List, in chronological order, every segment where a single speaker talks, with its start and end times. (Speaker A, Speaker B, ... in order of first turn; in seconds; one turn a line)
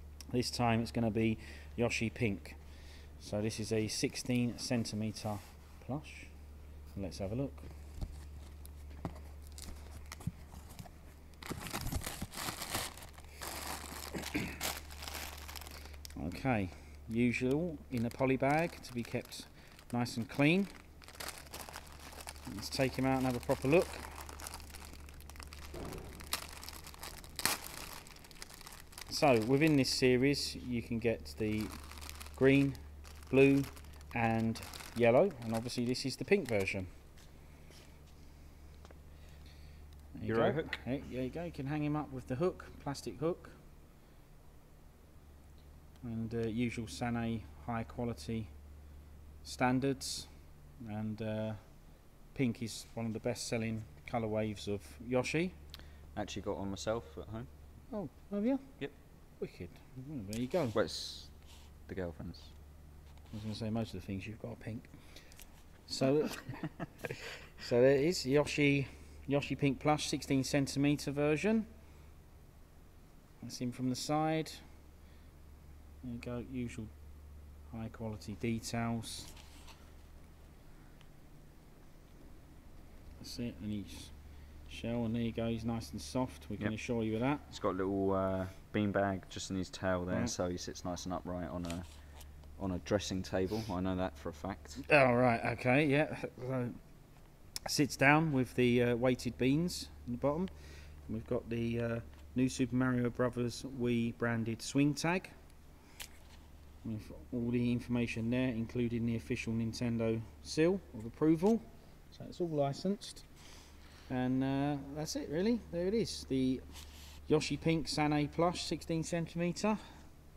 Speaker A: 0.3-7.7
Speaker A: 16.1-20.7
Speaker A: 22.4-24.2
Speaker A: 29.1-36.9
Speaker A: 40.1-43.6
Speaker B: 40.3-40.8
Speaker A: 46.0-48.5
Speaker A: 49.4-55.5
Speaker B: 56.1-57.5
Speaker A: 57.9-60.8
Speaker B: 60.7-62.5
Speaker A: 63.3-67.0
Speaker A: 67.6-71.7
Speaker A: 73.4-74.7
Speaker A: 76.0-79.3
Speaker A: 83.2-87.4
Speaker B: 86.6-94.8
Speaker A: 94.8-97.0
Speaker A: 97.6-105.3
Speaker A: 106.8-120.0